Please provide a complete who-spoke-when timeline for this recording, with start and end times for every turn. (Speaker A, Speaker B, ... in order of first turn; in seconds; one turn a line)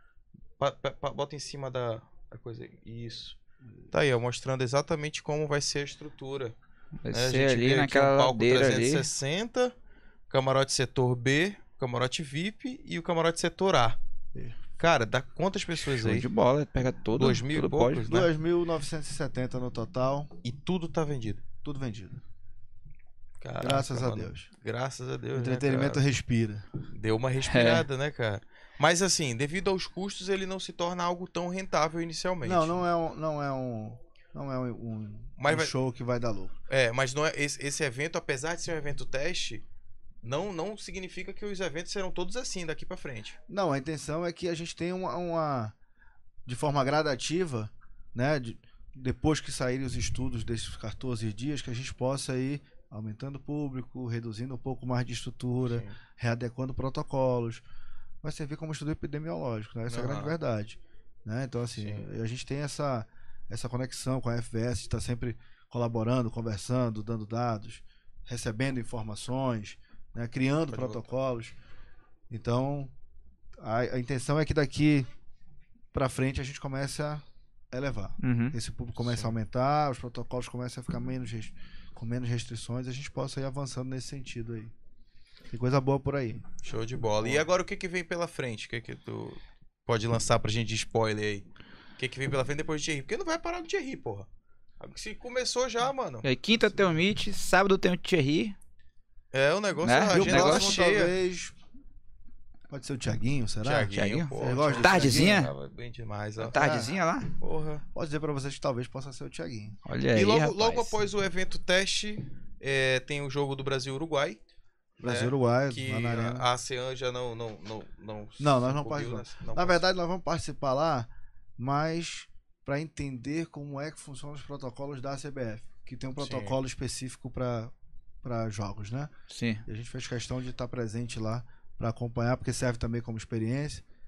Speaker A: 0.6-3.4
Speaker A: 3.9-6.5
Speaker B: 7.0-9.1
Speaker A: 7.1-9.7
Speaker A: 10.3-14.0
Speaker A: 14.8-16.3
Speaker B: 15.9-18.1
Speaker A: 17.2-18.3
Speaker C: 18.1-20.3
Speaker A: 20.4-21.4
Speaker C: 21.6-22.2
Speaker A: 23.4-26.1
Speaker C: 23.6-24.5
Speaker C: 25.3-26.7
Speaker A: 26.9-32.8
Speaker B: 27.5-27.8
Speaker C: 32.4-36.5
Speaker A: 35.4-35.7
Speaker A: 36.7-39.6
Speaker A: 40.2-43.4
Speaker C: 43.5-45.7
Speaker C: 46.5-57.6
Speaker A: 55.6-56.0
Speaker C: 58.2-71.5
Speaker A: 59.9-60.4
Speaker A: 61.8-62.1
Speaker A: 70.7-71.0
Speaker C: 72.3-72.9
Speaker C: 73.6-75.1
Speaker C: 75.9-84.7
Speaker B: 78.2-78.5
Speaker A: 79.0-79.3
Speaker C: 85.5-86.6
Speaker A: 86.6-91.5
Speaker C: 87.2-87.5
Speaker A: 92.0-94.3
Speaker A: 94.8-96.3
Speaker B: 96.2-98.5
Speaker A: 99.3-101.1
Speaker B: 99.8-100.7
Speaker C: 100.1-101.5
Speaker C: 102.7-105.4
Speaker A: 103.6-106.6
Speaker B: 103.9-105.5
Speaker B: 106.4-107.3
Speaker C: 106.5-106.9
Speaker A: 107.4-107.8
Speaker C: 107.9-109.8
Speaker B: 109.8-111.0
Speaker A: 110.1-114.4
Speaker C: 115.0-116.5
Speaker A: 115.0-119.8
Speaker C: 118.4-127.7
Speaker A: 126.2-126.5
Speaker C: 128.2-129.1
Speaker B: 129.3-129.6
Speaker C: 129.7-133.8